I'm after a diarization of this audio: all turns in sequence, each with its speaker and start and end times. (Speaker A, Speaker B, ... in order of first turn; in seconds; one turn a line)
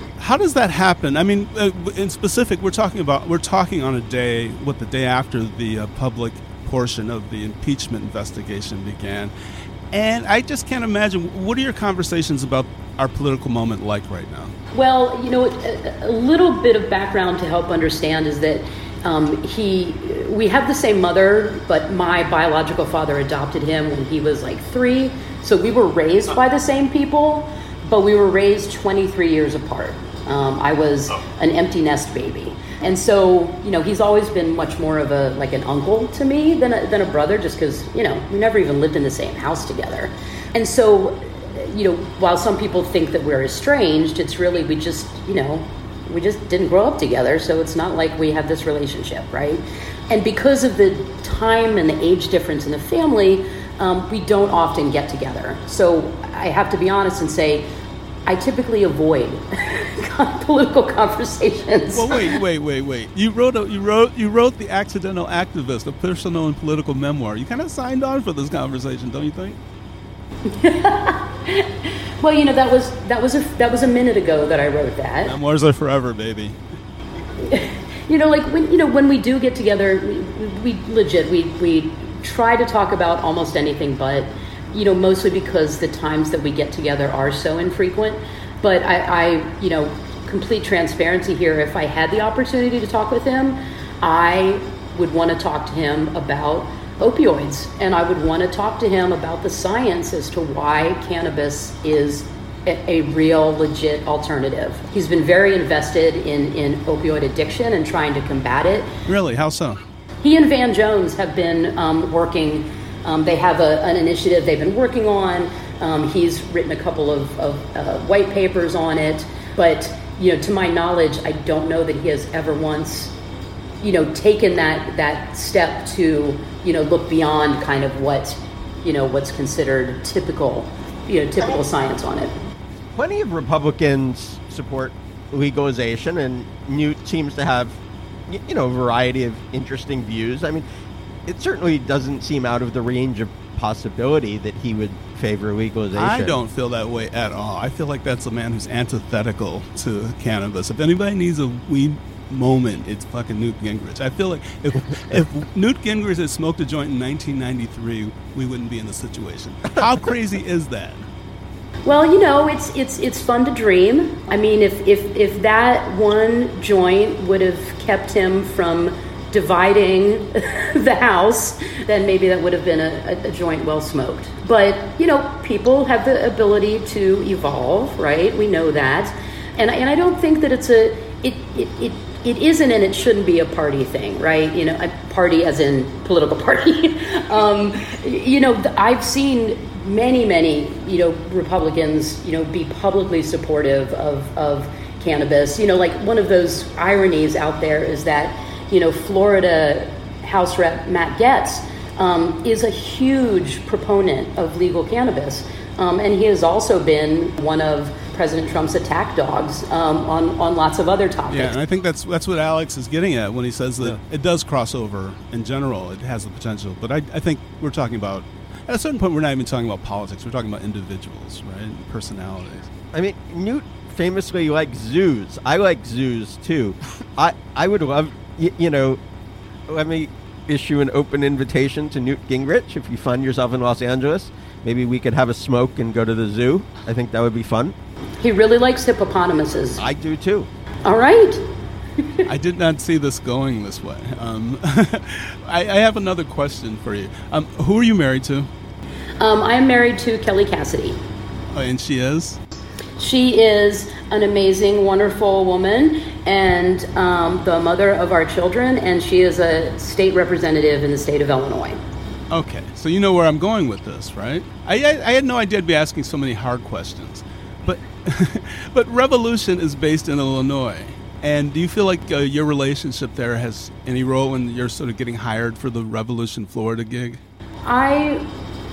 Speaker A: 0.2-9.3
Speaker A: 9.9-14.6
Speaker B: 14.7-57.7
Speaker B: 58.3-62.4
Speaker A: 61.9-69.6
Speaker B: 70.5-75.3
Speaker A: 75.3-76.6
Speaker B: 77.4-108.9
Speaker A: 109.1-109.8
Speaker B: 110.2-123.2
Speaker B: 123.8-132.3
Speaker C: 132.9-140.7
Speaker C: 141.3-146.4
Speaker A: 145.9-161.0
Speaker B: 161.8-211.6
Speaker A: 211.3-222.7
Speaker C: 222.9-229.0
Speaker C: 229.7-237.8
Speaker B: 238.2-239.8
Speaker C: 239.8-240.5
Speaker B: 240.8-241.4
Speaker A: 242.3-248.5
Speaker B: 249.2-251.0
Speaker A: 251.5-252.4
Speaker B: 253.0-261.8
Speaker A: 262.3-277.2
Speaker B: 277.6-278.3